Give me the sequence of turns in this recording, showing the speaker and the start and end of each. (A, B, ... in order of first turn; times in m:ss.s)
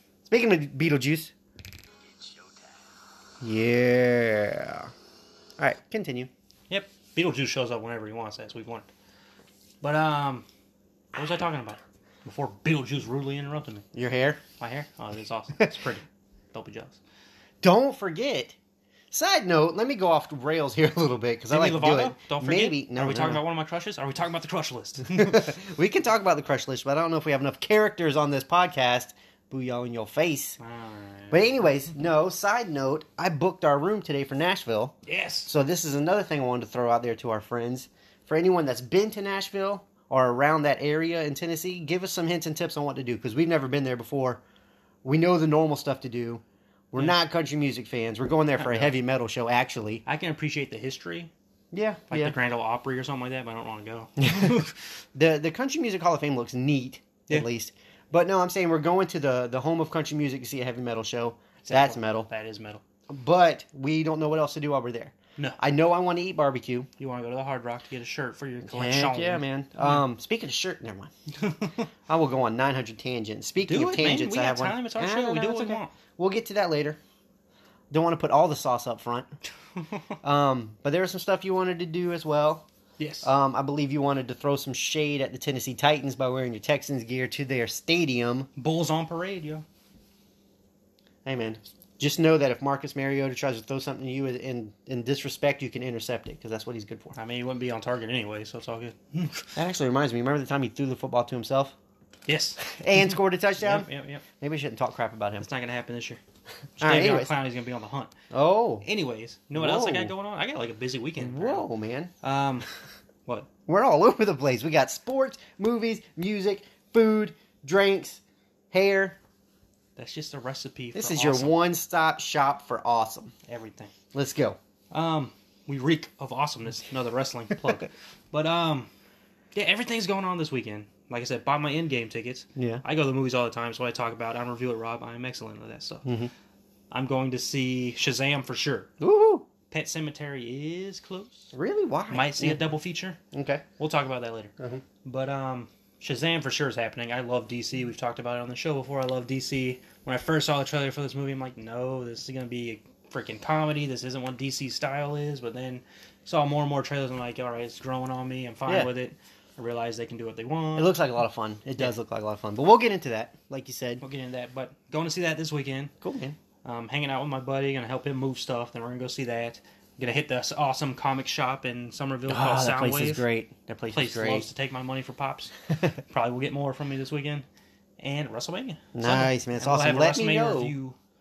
0:00.3-0:01.3 A
0:03.4-0:04.9 A
0:05.6-0:06.3 A
0:06.7-0:08.9 B
0:09.8-0:10.4 B
0:11.1-0:13.8 B
0:13.9-0:14.4 A
0:14.6-0:17.0 B
0:17.6-0:18.6 A
0:19.1-0:23.4 A
0:21.5-0:25.6 B
0:25.1-0:30.6 A
0:30.6-0:31.5 B
0:31.3-0:44.4 A
0:35.1-0:35.5 B
0:45.0-0:50.0 A
0:48.6-0:48.9 B
0:50.0-0:51.3 B
0:51.7-0:52.3 A
0:52.1-0:54.8 B
0:54.2-0:54.6 A
0:55.1-1:02.3 A
1:01.6-1:02.8 B
1:03.1-1:06.9 A
1:07.0-1:10.0 B
1:08.6-1:11.1 A
1:11.3-1:11.9 B
1:12.1-1:17.0 A
1:13.6-1:15.9 B
1:17.9-1:19.3 A
1:19.8-1:20.1 B
1:20.2-1:22.6 A
1:23.0-1:23.3 B
1:23.2-1:28.5 A
1:28.6-1:29.6 B
1:31.2-1:37.2 A
1:37.1-1:39.5 B
1:39.6-1:41.7 A
1:42.3-1:44.2 B
1:42.6-1:45.5 A
1:45.4-1:46.2 B
1:46.8-1:47.3 A
1:46.8-1:48.1 B
1:48.3-1:48.8 A
1:48.8-1:51.7 B
1:49.5-1:50.1 A
1:51.2-1:52.1 A
1:52.2-1:52.7 B
1:53.6-1:59.2 A
2:00.0-2:01.5 B
2:00.9-2:03.3 A
2:03.4-2:03.9 B
2:04.1-2:04.6 A
2:04.9-2:08.9 B
2:09.5-2:16.1 B
2:12.6-2:12.8 A
2:16.0-2:16.3 A
2:16.9-2:18.9 B
2:19.0-2:19.4 A
2:19.7-2:21.5 B
2:21.5-2:22.7 A
2:22.1-2:23.2 B
2:23.3-2:23.6 A
2:23.8-2:41.0 B
2:40.8-2:44.0 A
2:44.0-2:45.9 B
2:46.0-2:46.4 A
2:46.6-2:53.2 B
2:52.3-2:54.5 A
2:53.9-2:55.5 B
2:56.1-2:57.4 B
2:58.0-3:01.0 B
2:58.9-3:00.7 A